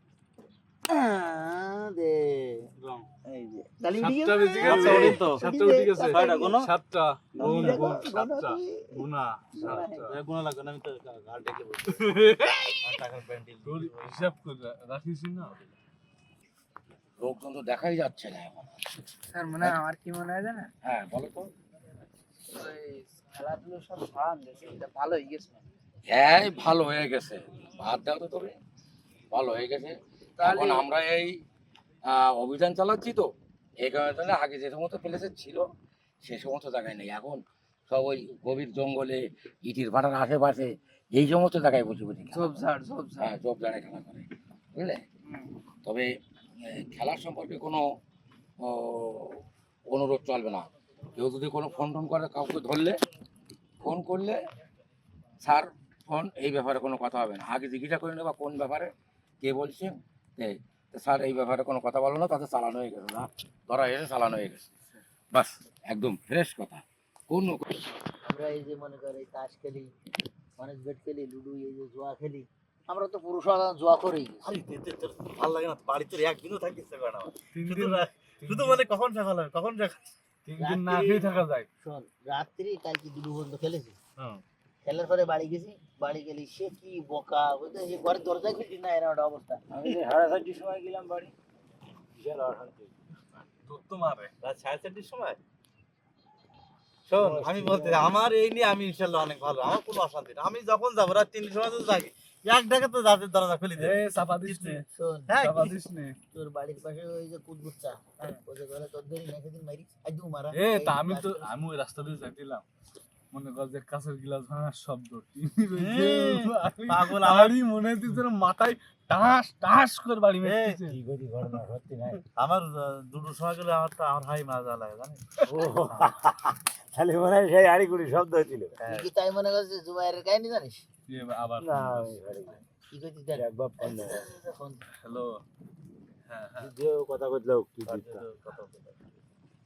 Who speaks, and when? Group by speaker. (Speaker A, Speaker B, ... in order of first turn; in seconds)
Speaker A: 0.9-2.7, 3.2-6.6, 7.3-8.8, 9.5-10.0, 68.2-69.9, 70.6-74.5, 80.6-84.0, 84.8-89.6, 104.9-105.3, 106.3-111.5, 128.9-130.8, 132.9-134.8
Speaker B: 2.8-3.1, 4.0-10.1, 11.9-12.7, 13.6-15.5, 77.5-78.8, 80.5-81.7, 93.7-94.3, 103.8-104.8, 105.4-106.2, 110.5-112.6, 113.3-121.0, 131.1-132.2, 135.0-135.4, 136.3-136.7
Speaker C: 4.6-5.5, 6.1-6.7, 7.4-8.0, 9.0-12.3, 12.8-14.2, 74.4-80.0, 84.2-84.4, 94.4-95.4, 97.1-105.8, 115.8-117.5, 120.4-120.8, 122.3-125.2, 128.8-129.1, 137.9-139.0
Speaker D: 17.2-18.7, 19.6-19.8, 20.8-21.5, 26.1-28.5, 29.3-31.4, 32.0-35.7, 36.2-42.6, 43.2-45.0, 46.6-47.8, 48.6-53.0, 53.8-54.4, 55.4-64.7, 65.3-67.6
Speaker E: 19.3-20.7, 22.5-25.6, 30.4-30.9, 42.3-43.3, 45.2-45.5
Speaker F: 89.7-91.3, 92.1-92.9, 97.1-98.2, 120.9-122.2, 125.5-128.8, 131.6-132.6, 133.3-134.2, 136.6-138.2